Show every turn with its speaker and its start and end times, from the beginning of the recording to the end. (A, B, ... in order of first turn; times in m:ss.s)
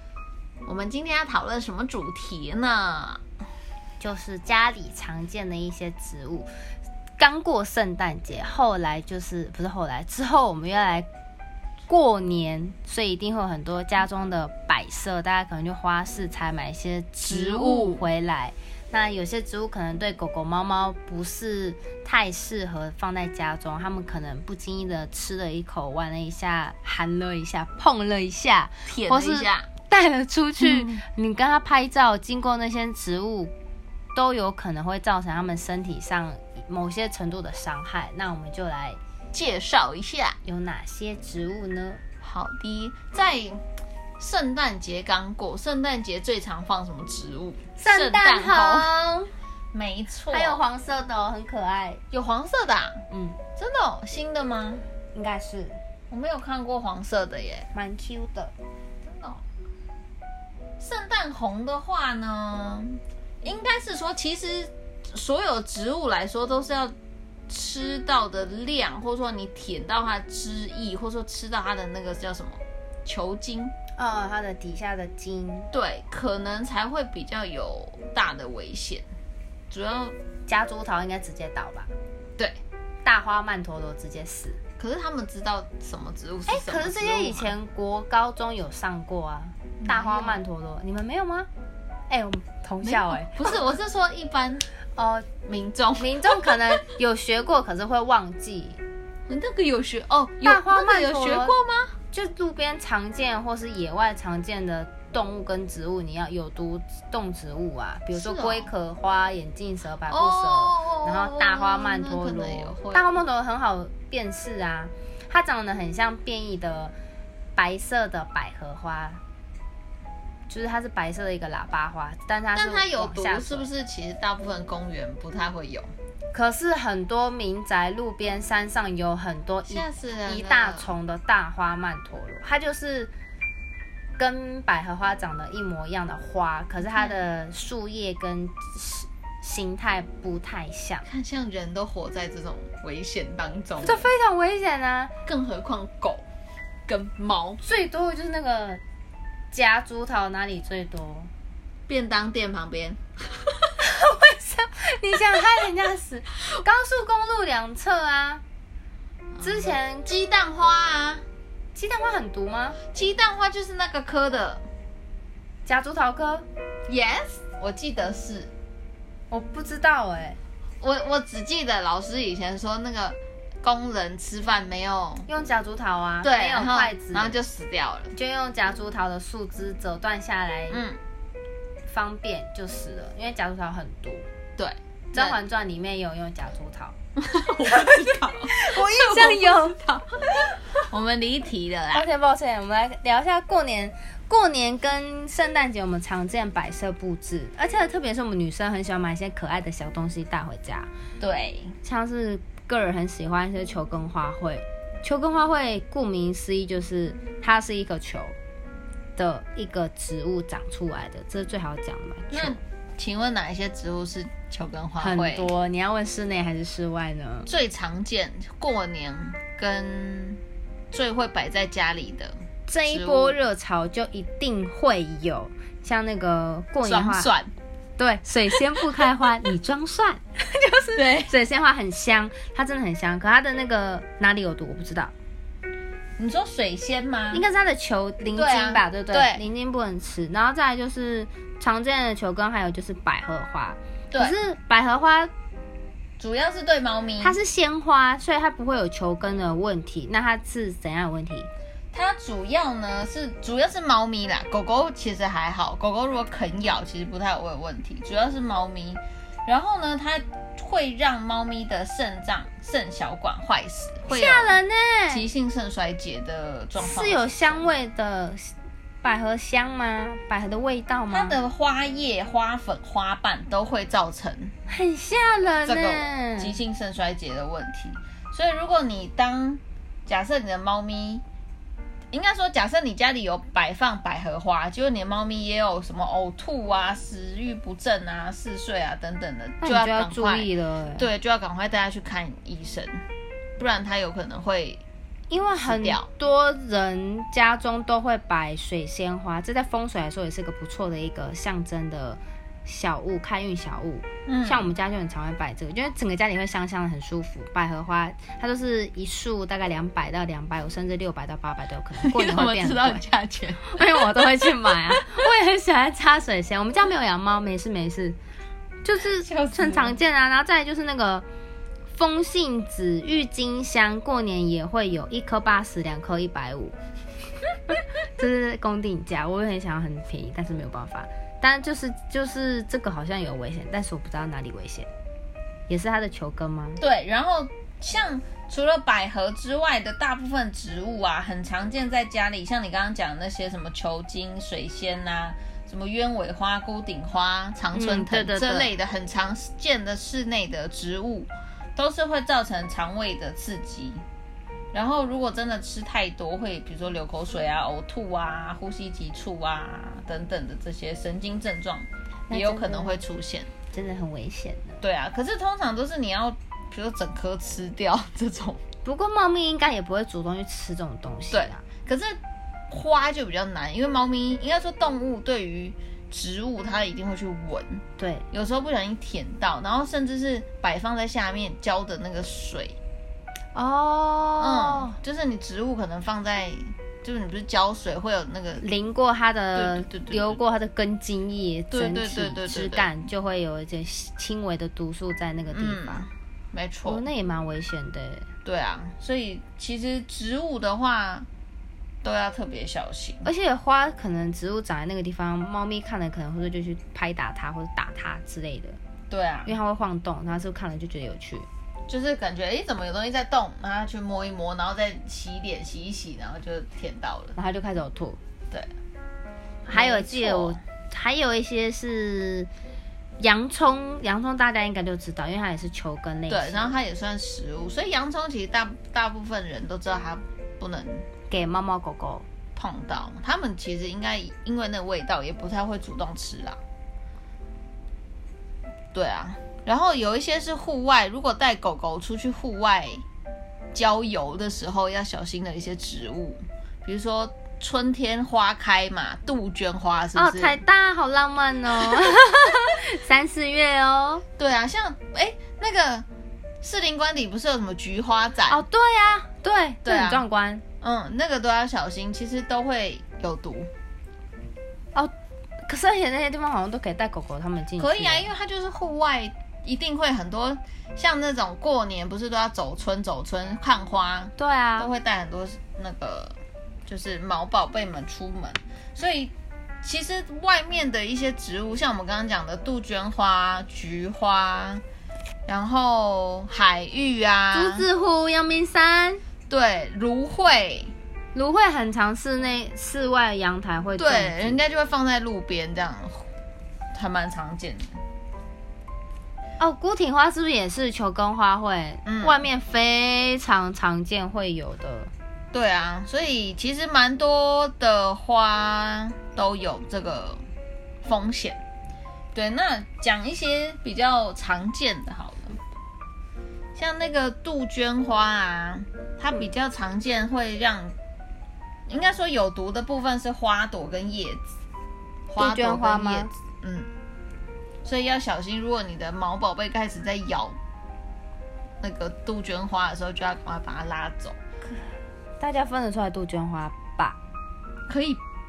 0:00.6-0:03.2 A
0:04.0-0:06.5 B
0:07.2-0:11.1 B
0:11.9-0:33.5 B
0:17.2-0:18.0 A
0:28.9-0:29.7 A
0:30.6-0:31.0 A
0:34.2-0:39.0 B
0:39.3-0:40.4 A
0:40.4-0:42.0 B
0:42.2-0:43.6 A
0:44.2-0:48.9 A
0:47.8-0:49.3 B
0:49.7-0:50.6 A
0:50.3-0:52.0 B
0:52.1-0:53.0 A
0:53.1-0:53.4 B
0:53.6-0:54.8 A
0:55.1-0:55.8 B
0:56.1-0:57.7 A
0:57.7-0:58.5 B
0:59.0-0:59.4 A
1:00.8-1:07.0 A
1:07.5-1:13.7 A
1:14.0-1:15.7 B
1:15.7-1:19.0 A
1:19.7-1:20.2 A
1:20.5-1:21.9 B
1:23.0-1:24.6 B
1:24.8-1:27.5 A
1:26.5-1:31.5 B
1:29.8-1:30.4 A
1:32.1-1:33.6 B
1:32.8-1:34.7 A
1:35.0-1:35.3 B
1:35.5-1:36.8 A
1:36.0-1:38.8 B
1:39.3-1:42.0 A
1:40.4-1:41.6 B
1:42.1-1:56.9 B
1:48.1-1:48.7 A
1:50.1-1:53.1 A
1:57.6-1:59.2 B
2:00.5-2:03.7 B
2:02.6-2:05.9 A
2:06.3-2:13.1 B
2:09.7-2:10.9 A
2:14.2-2:21.1 B
2:16.8-2:17.2 A
2:21.1-2:24.1 A
2:23.8-2:25.1 B
2:25.2-2:26.2 A
2:26.9-2:27.6 A
2:27.6-2:28.8 B
2:29.5-2:31.3 B
2:31.9-2:33.0 A
2:33.8-2:38.4 B
2:39.4-2:40.1 B
2:39.7-2:41.2 A
2:41.8-2:42.8 B
2:42.9-2:44.6 A
2:45.7-2:46.5 B
2:46.9-2:48.5 A
2:49.3-2:50.4 B
2:50.8-2:55.3 A
2:55.3-2:57.4 B
2:56.2-2:58.2 A
2:58.1-3:00.8 B
3:00.7-3:01.0 A
3:01.9-3:04.3 B
3:04.6-3:05.4 A
3:05.1-3:07.0 B
3:07.2-3:10.2 A
3:07.7-3:09.8 B
3:10.8-3:12.1 A
3:11.9-3:20.9 B
3:21.2-3:21.8 A
3:21.8-3:28.4 B
3:29.2-3:32.6 B
3:32.3-3:35.5 A
3:35.0-3:37.5 B
3:37.5-3:43.4 A
3:42.7-3:47.3 B
3:46.8-3:47.5 A
3:48.0-3:55.1 B
3:51.0-3:51.3 A
3:56.2-3:57.4 A
3:57.3-4:05.3 B
3:58.3-3:59.4 A
4:04.1-4:04.4 A
4:06.2-4:07.4 A
4:07.2-4:11.5 B
4:11.9-4:27.7 A
4:24.1-4:25.3 B
4:26.8-4:28.5 B
4:29.0-4:31.4 B
4:31.1-4:34.6 A
4:34.7-4:36.6 B
4:35.6-4:41.2 A
4:42.1-4:53.0 A
4:49.6-4:51.1 B
4:53.6-4:54.8 A
4:55.3-5:13.0 B
4:55.6-4:56.1 A
5:04.3-5:04.7 A
5:12.0-5:15.2 A
5:13.6-5:18.2 B
5:18.8-5:21.2 B
5:19.2-5:20.0 A
5:21.9-5:26.8 B
5:27.7-5:34.9 B
5:35.7-5:36.8 B
5:36.8-5:54.0 A
5:47.7-5:48.7 B
5:54.7-6:03.5 A
6:02.3-6:03.0 B
6:03.7-6:04.8 B
6:04.8-6:08.6 A
6:08.8-6:11.6 B
6:11.3-6:12.2 A
6:12.7-6:22.8 A
6:18.0-6:18.3 B
6:23.6-6:25.0 B
6:24.4-6:28.6 A
6:28.6-6:36.0 B
6:29.5-6:30.4 A
6:31.7-6:32.9 A
6:35.5-6:37.1 A
6:36.8-6:38.3 B
6:38.4-6:41.3 A
6:42.0-6:43.3 A
6:43.2-6:48.8 B
6:49.1-6:49.6 A
6:49.5-6:51.5 B
6:51.9-6:57.4 A
6:57.4-6:58.2 B
6:59.7-7:02.5 B
6:59.7-7:00.6 A
7:03.2-7:06.8 B
7:06.3-7:11.1 A
7:11.3-7:12.3 B
7:12.6-7:16.6 A
7:18.9-7:23.0 A
7:23.7-7:30.6 A
7:30.2-7:34.2 B
7:34.4-7:36.1 A
7:36.6-7:38.6 A
7:38.5-7:40.6 B
7:39.8-7:40.2 A
7:40.8-7:43.7 A
7:45.7-7:48.3 B
7:47.8-8:04.8 A
7:54.4-7:54.9 B
8:05.5-8:07.9 A
8:07.5-8:09.2 B
8:09.5-8:10.9 A
8:11.3-8:14.6 B
8:14.0-8:16.3 A
8:16.9-8:18.0 A
8:19.6-8:25.1 B
8:22.1-8:22.4 A
8:25.5-8:30.4 A
8:31.0-8:31.6 A
8:32.4-8:35.6 A
8:36.8-8:41.0 A
8:41.9-8:44.5 A
8:45.3-8:46.9 A
8:45.4-8:46.3 B
8:47.8-8:50.6 A
8:51.8-8:54.4 A
8:55.4-8:57.2 B
8:57.9-8:58.2 A